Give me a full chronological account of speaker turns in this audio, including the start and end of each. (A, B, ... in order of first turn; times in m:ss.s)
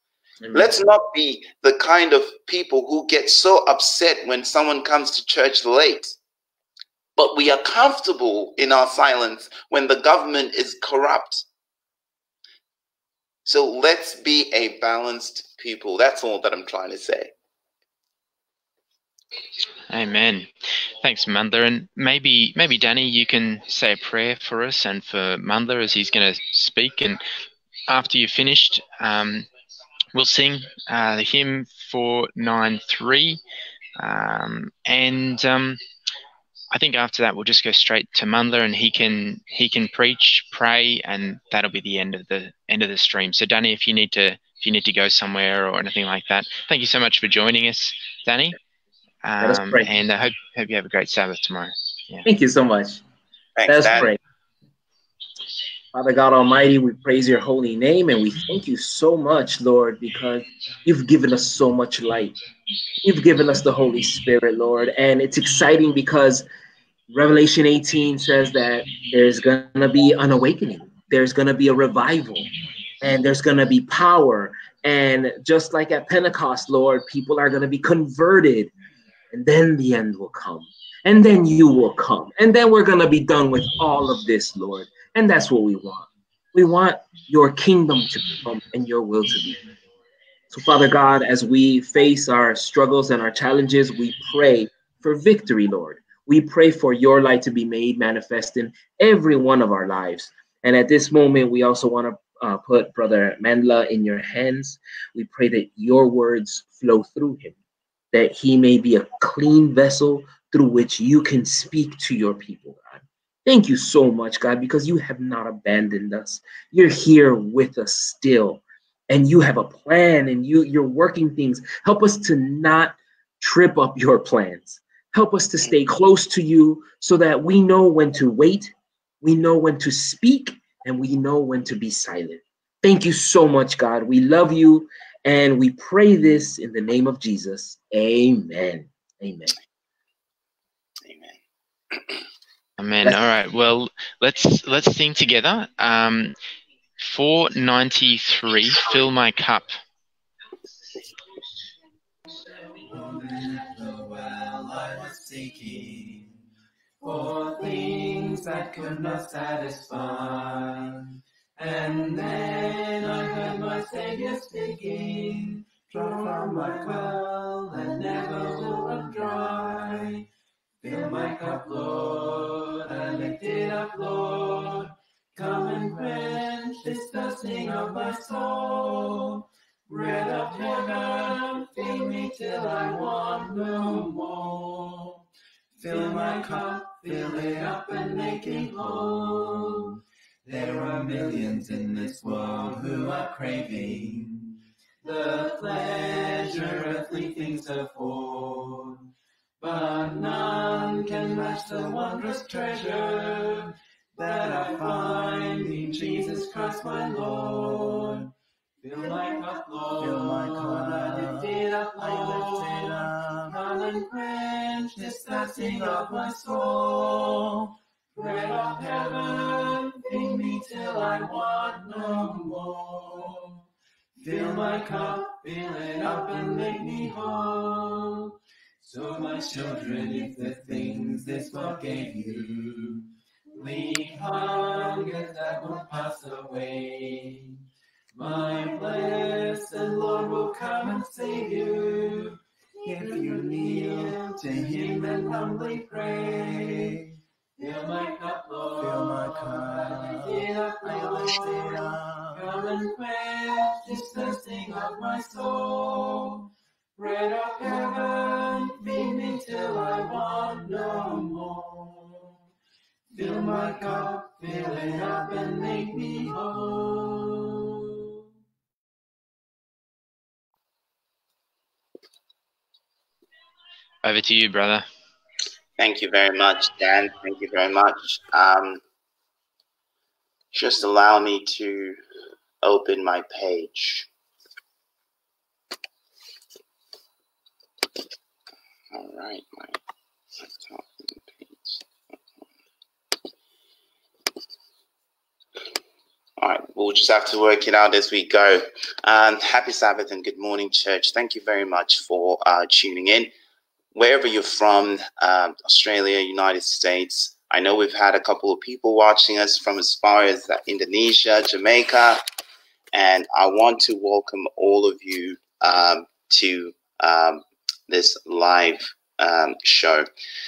0:00.4-0:00.9 A
0:00.5-0:06.2 B
0:07.2-0:11.4 B
0:13.4-0:17.3 B
0:19.9-0:27.2 C
0:27.9-0:29.5 C
0:30.1-0:33.4 C
0:34.0-0:35.8 C
0:36.7-0:48.6 C
0:49.2-0:52.3 C
0:49.4-0:49.9 A
0:52.2-0:53.0 A
0:53.6-0:54.1 B
0:53.7-0:54.2 A
0:55.9-1:02.4 A
1:03.0-1:06.5 A
1:07.1-1:12.5 A
1:13.0-1:18.7 A
1:19.3-1:29.6 A
1:30.5-1:47.5 A
1:48.1-2:19.6 A
2:21.0-2:21.4 B
2:21.9-2:22.2 B
2:22.8-2:26.4 C
2:27.0-2:29.7 C
2:32.8-2:36.3 D
2:37.0-2:50.2 D
2:50.8-3:05.2 D
3:05.8-3:19.0 D
3:19.6-3:43.5 D
3:30.0-3:31.3 E
3:33.0-3:33.3 E
3:44.2-3:57.6 D
3:58.2-4:02.4 D
4:02.9-4:04.6 E
4:02.9-4:06.9 D
4:07.6-4:11.7 D
4:08.9-4:10.1 E
4:10.8-4:12.2 E
4:12.3-4:22.3 D
4:23.1-4:28.1 D
4:34.0-4:34.8 C
4:35.8-4:38.8 B
4:40.5-4:42.0 B
4:42.6-4:44.1 B
4:48.9-4:49.8 B
4:50.4-4:50.9 B
4:51.4-4:51.8 B
4:56.4-5:03.3 B
5:03.9-5:12.2 B
5:12.9-5:20.1 B